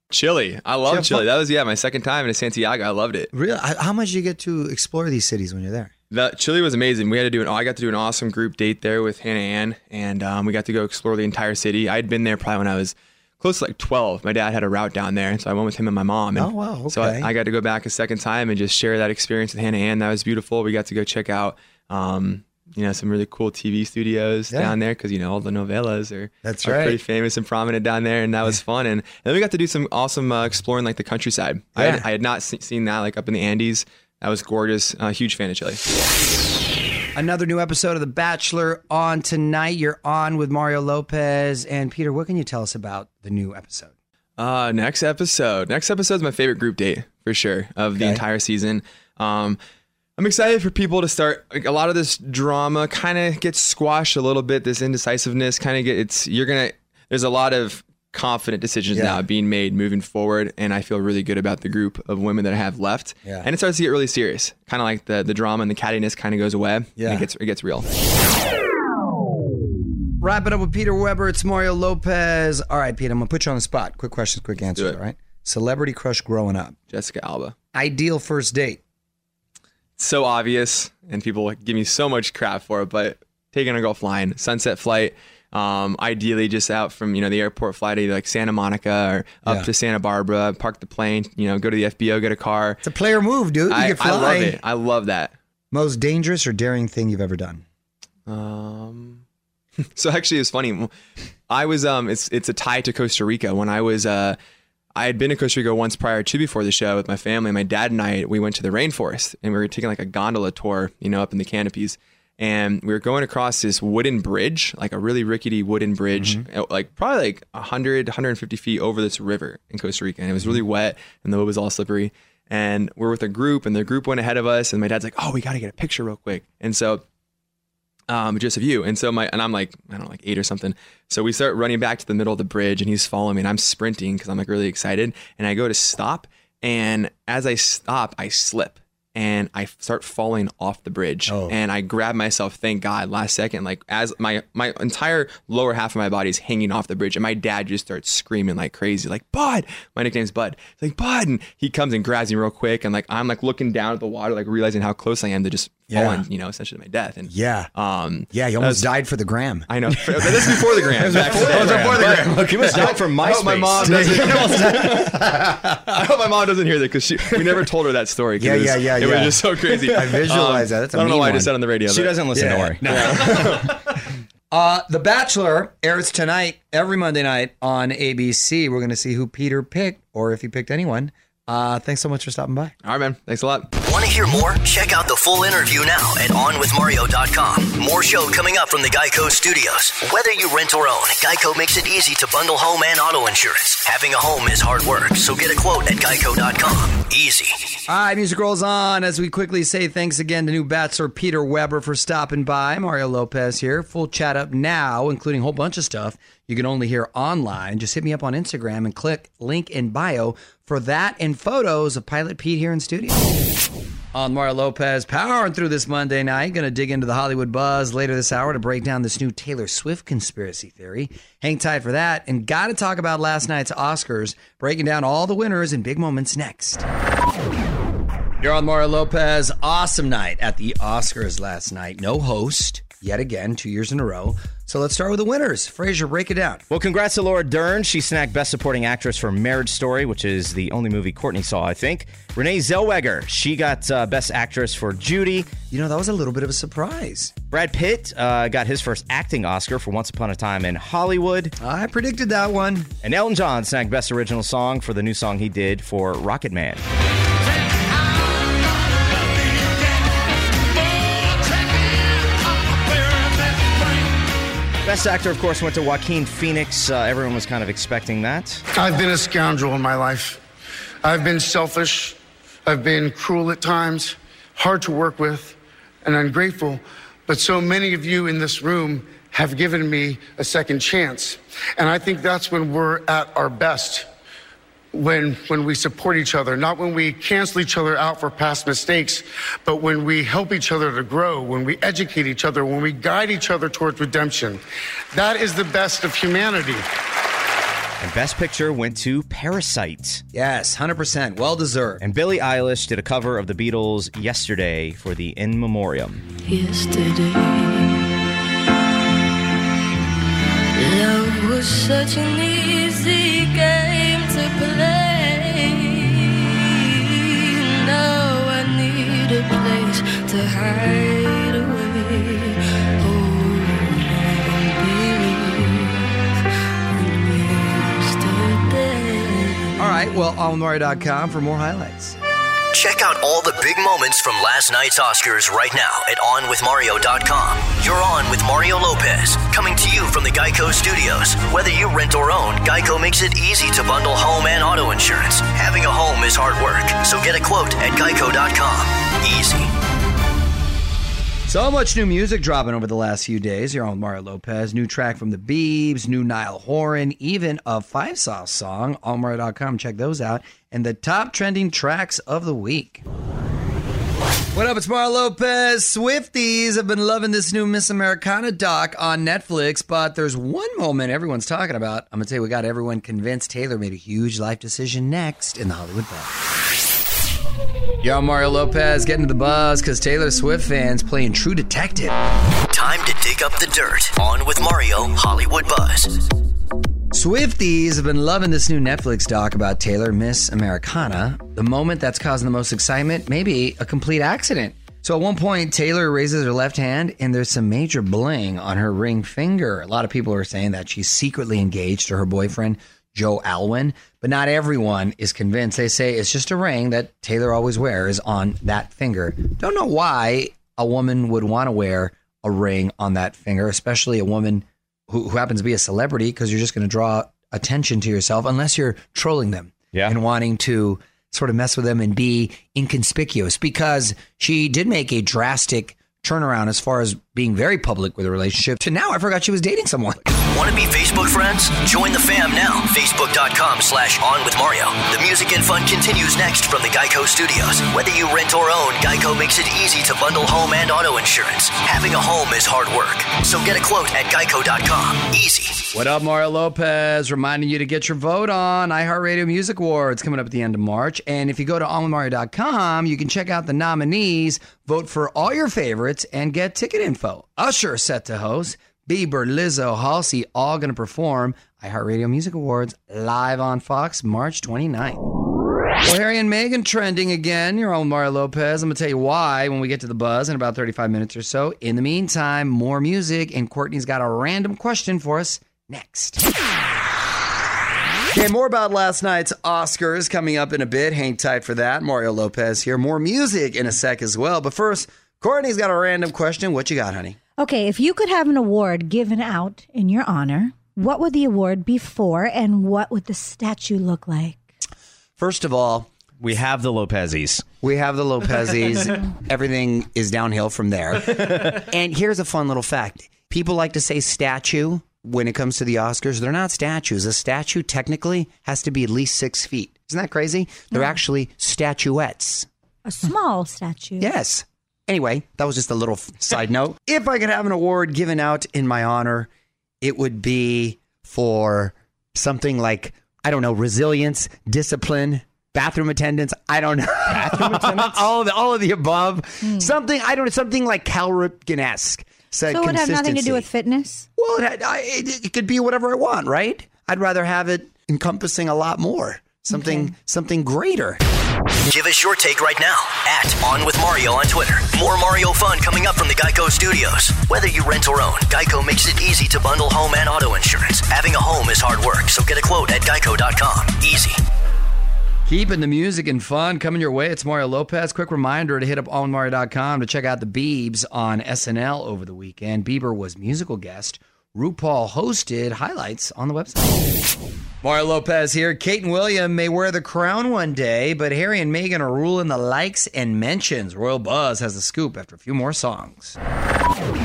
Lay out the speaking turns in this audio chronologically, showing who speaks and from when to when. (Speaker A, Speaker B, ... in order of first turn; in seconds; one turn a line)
Speaker A: 0.1-3.3
Speaker B: 0.9-1.2
Speaker B: 3.3-5.9
Speaker A: 6.1-35.8
Speaker B: 16.3-17.3
Speaker B: 26.4-27.0
Speaker B: 31.8-32.0
Speaker B: 37.1-43.9
Speaker A: 44.4-49.6
Speaker B: 48.0-48.2
Speaker A: 50.2-68.0
Speaker B: 58.9-59.2
Speaker B: 67.0-67.3
Speaker B: 70.2-76.8
Speaker A: 74.7-75.0
Speaker A: 76.9-77.5
Speaker B: 77.7-78.8
Speaker A: 80.0-92.8
Speaker B: 92.8-94.6
Speaker A: 93.7-95.3
Speaker B: 95.7-97.6
Speaker A: 98.3-99.2
Speaker A: 100.0-100.9
Speaker A: 101.5-104.4
Speaker A: 105.0-127.0
Speaker B: 116.1-116.5
Speaker A: 128.1-158.9
Speaker B: 141.3-141.6
Speaker B: 155.9-156.2
Speaker B: 157.3-157.7
Speaker B: 158.3-163.0
Speaker A: 159.7-165.1
Speaker C: 161.1-164.8
Speaker B: 163.8-165.8
Speaker A: 165.8-172.2
Speaker B: 168.4-171.5
Speaker C: 171.9-172.9
Speaker B: 172.3-173.7
Speaker A: 172.8-174.0
Speaker B: 174.5-182.7
Speaker A: 182.8-183.7
Speaker D: 183.8-197.7
Speaker B: 197.9-213.2
Speaker B: 214.1-226.8
Speaker B: 228.4-236.6
Speaker C: 236.7-245.5
Speaker B: 245.7-247.3
Speaker C: 247.5-251.5
Speaker B: 251.6-252.9
Speaker C: 253.0-256.8
Speaker C: 264.8-268.6
Speaker E: 268.7-270.4
Speaker E: 271.0-284.1
Speaker E: 284.9-294.6
Speaker E: 295.1-296.9
Speaker C: 298.0-300.2
Speaker B: 300.3-302.0
Speaker C: 302.0-306.2
Speaker F: 306.5-308.0
Speaker F: 310.8-316.6
Speaker F: 317.4-326.0
Speaker F: 326.9-329.7
Speaker B: 329.8-332.1
Speaker D: 332.7-349.7
Speaker B: 351.5-363.0
Speaker B: 364.5-376.3
Speaker B: 378.0-382.1
Speaker D: 382.7-386.1
Speaker B: 387.1-430.3
Speaker D: 430.5-445.8
Speaker B: 445.9-465.2
Speaker B: 466.0-476.4
Speaker B: 478.3-487.4
Speaker G: 487.6-494.6
Speaker B: 495.4-496.1
Speaker C: 496.4-497.6
Speaker B: 497.8-512.7
Speaker G: 513.0-514.3
Speaker B: 514.2-519.5
Speaker B: 520.0-533.7
Speaker C: 527.5-528.1
Speaker G: 529.6-529.9
Speaker G: 532.7-534.2
Speaker B: 534.4-541.2
Speaker G: 539.7-540.1
Speaker D: 541.9-554.4
Speaker B: 555.5-567.0
Speaker B: 567.8-576.4